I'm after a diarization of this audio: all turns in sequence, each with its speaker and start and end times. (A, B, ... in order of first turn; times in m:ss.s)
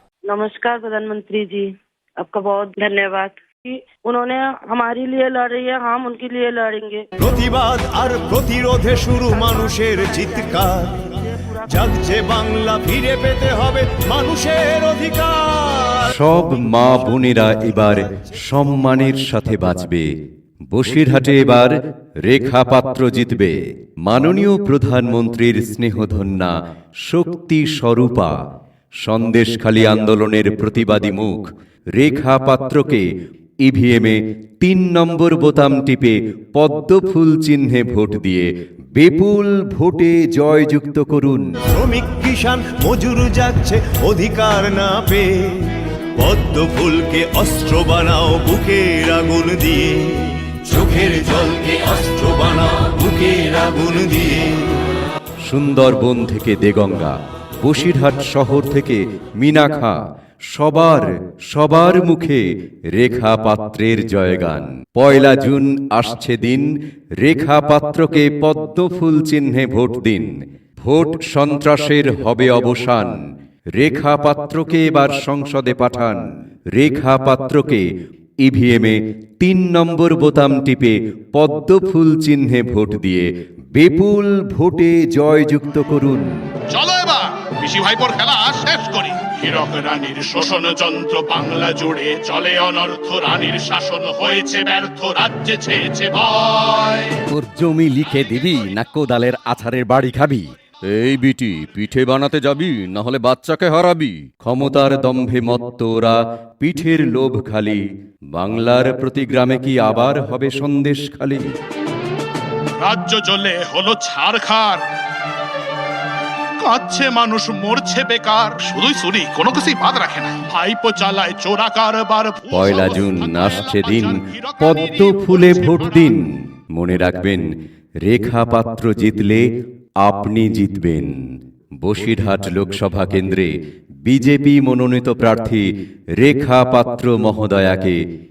0:00.2-0:07.0 A
0:07.2-0:16.1 B
0:11.3-0:11.7 A
0:16.1-0:20.1 C
0:20.7-0:28.3 C
0:29.0-0:33.0 C
0:33.6-0:41.6 C
0:41.7-0:54.8 B
0:55.4-1:13.2 C
1:13.7-1:17.9 C
1:18.4-1:26.3 C
1:26.7-1:37.2 D
1:37.3-1:51.5 C
1:52.8-1:54.8 D
1:56.6-2:06.2 D
2:02.5-2:09.4 C
2:10.0-2:13.5 C
2:14.0-2:18.0 C